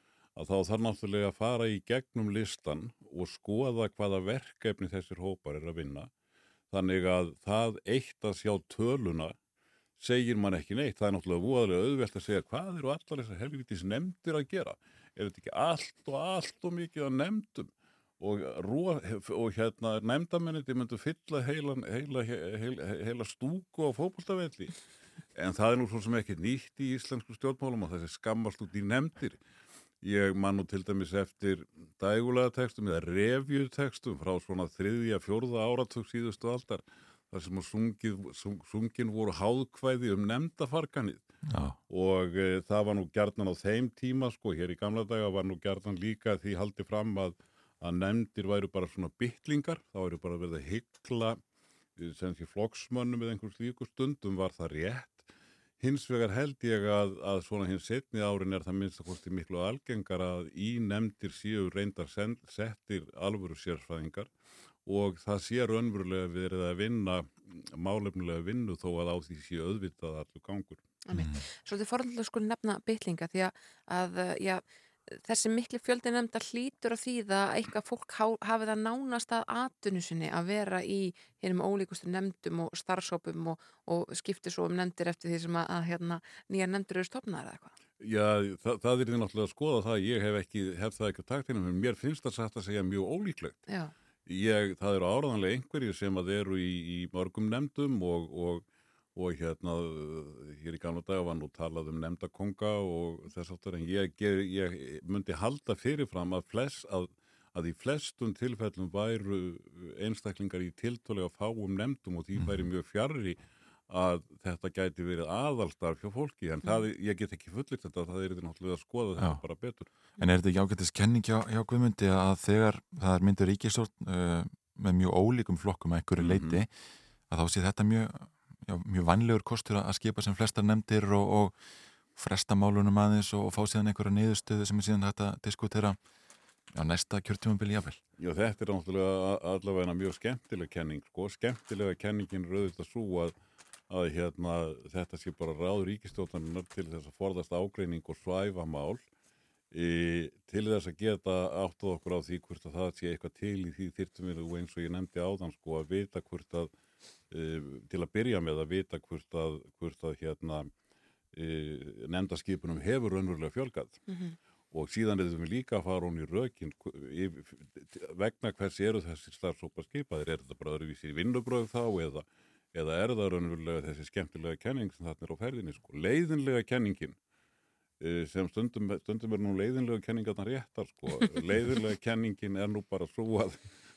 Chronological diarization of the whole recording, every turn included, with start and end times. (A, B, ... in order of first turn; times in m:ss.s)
0:00.4-0:06.1 A
0:06.7-0:09.3 A
0:10.0-0:24.7 A
0:25.4-0:29.4 A
0:30.0-0:41.2 A
0:41.4-0:41.8 B
0:41.9-0:51.4 A
0:52.0-0:55.2 A
0:55.8-1:04.3 A
1:04.8-1:10.8 A
1:11.0-1:27.7 C
1:11.1-1:11.4 B
1:28.0-1:33.6 A
1:33.7-1:33.9 C
1:34.3-1:38.6 A
1:39.1-1:53.4 A
1:52.4-1:52.6 B
1:53.9-1:59.9 A
2:00.2-2:06.7 B
2:06.2-2:06.6 A
2:07.3-2:11.5 B
2:12.2-2:16.0 B
2:16.7-2:18.0 B
2:18.2-2:23.3 A
2:23.9-2:29.0 A
2:29.7-2:36.7 A
2:37.3-2:40.7 A
2:41.3-2:44.0 A
2:44.1-2:44.4 C
2:44.7-2:57.2 A
2:58.0-3:03.6 A